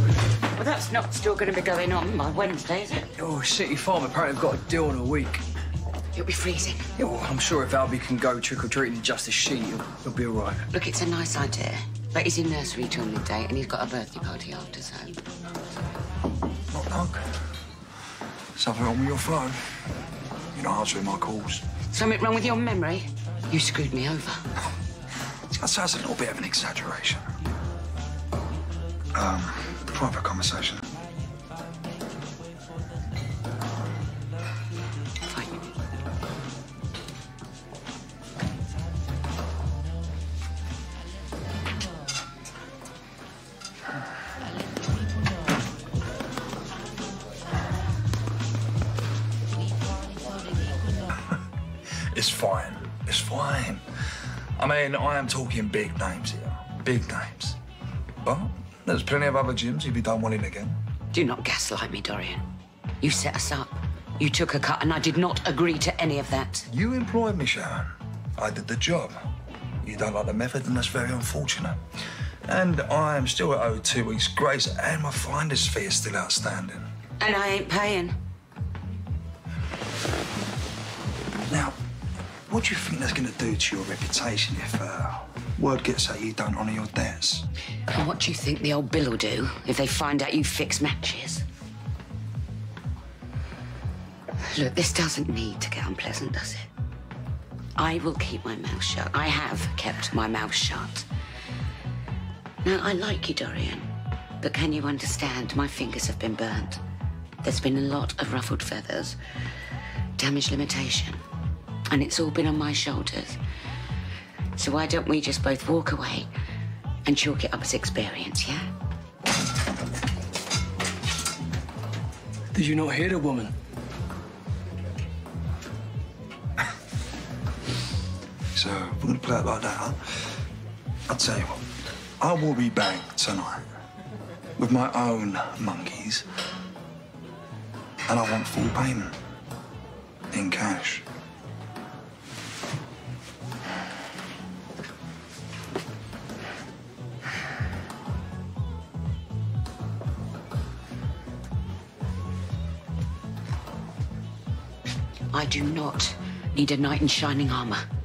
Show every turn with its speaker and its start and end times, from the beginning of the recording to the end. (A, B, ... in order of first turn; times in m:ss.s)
0:00.5-0:03.1 A
0:03.2-0:05.4 B
0:06.1-0:06.9 A
0:07.0-0:10.6 B
0:10.7-0:15.2 A
0:16.7-0:17.3 C
0:18.6-0:19.6 C
0:20.5-0:21.6 C
0:21.9-0:24.4 A
0:25.5-0:27.2 C
0:29.2-0:30.8 C
0:35.2-0:35.8 A
0:52.1-0:53.8 C
0:54.6-0:57.6 C
0:58.2-1:00.8 C
1:01.1-1:02.4 A
1:03.0-1:06.7 A
1:06.7-1:09.2 C
1:09.8-1:11.8 C
1:12.5-1:16.9 C
1:17.2-1:18.1 A
1:21.5-1:21.8 C
1:22.5-1:27.4 C
1:27.9-1:31.4 A
1:34.5-1:36.7 A
1:37.8-1:41.1 A
1:42.6-1:43.9 A
1:44.4-1:46.8 A
1:47.4-1:49.2 A
1:50.2-1:51.2 A
1:51.9-1:53.4 A
1:54.6-1:56.3 A
1:57.0-1:58.7 A
2:02.5-2:03.5 B
2:08.5-2:10.0 C
2:11.1-2:11.6 C
2:12.2-2:13.6 C
2:14.6-2:16.2 C
2:18.1-2:19.2 C
2:20.3-2:21.0 C
2:35.3-2:37.8 A